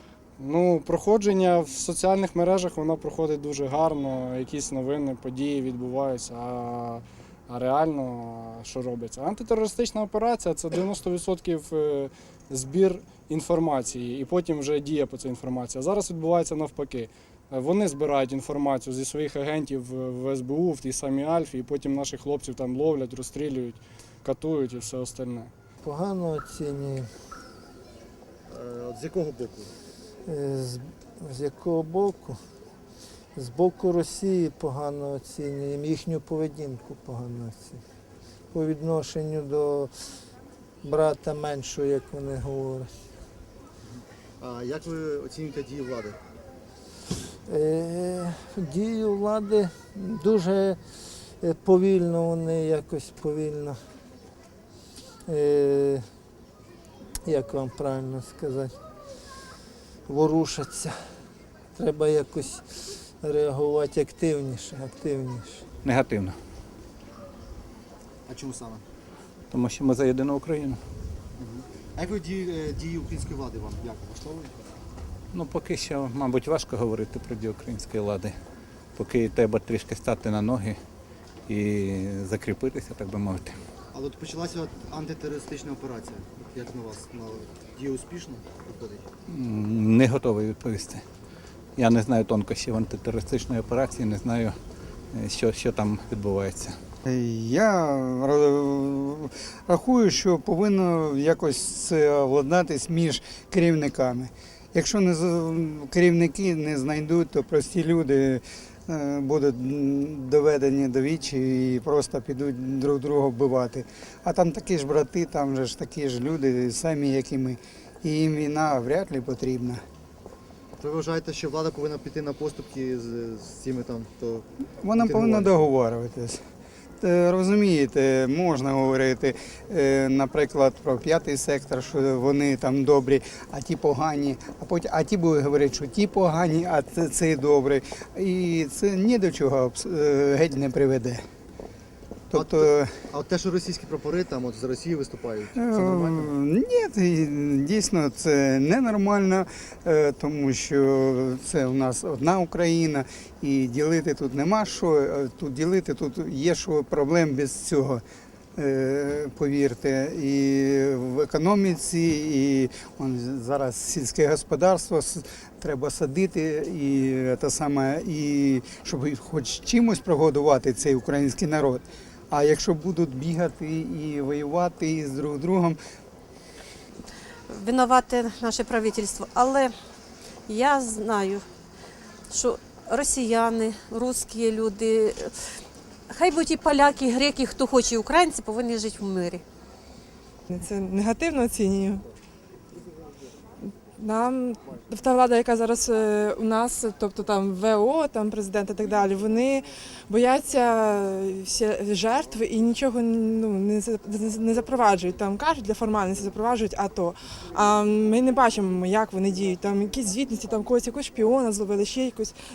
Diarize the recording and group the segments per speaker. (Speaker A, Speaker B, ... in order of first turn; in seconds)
Speaker A: 0.4-25.5
Speaker B: 25.8-27.1, 30.3-32.4, 33.4-37.8, 38.5-39.9, 40.8-42.9, 47.5-50.8, 51.4-53.8, 55.3-56.0, 57.3-58.7, 60.1-61.0, 61.8-62.6, 63.2-65.7
Speaker C: 28.5-29.7, 44.4-46.2, 68.3-68.8, 71.4-74.6, 83.9-89.1, 120.8-125.6, 142.3-146.3
Speaker D: 65.8-66.4, 69.5-70.8, 75.3-78.4, 79.0-80.8, 81.5-83.6, 89.3-91.0, 91.8-94.6, 95.1-96.8
Speaker E: 97.1-119.8, 124.8-126.4, 127.0-141.2, 142.3-142.9, 145.6-158.0, 158.6-175.8
Speaker F: 177.5-179.8, 180.5-181.5, 182.3-185.4, 186.1-189.4
Speaker G: 190.5-192.1, 193.6-212.3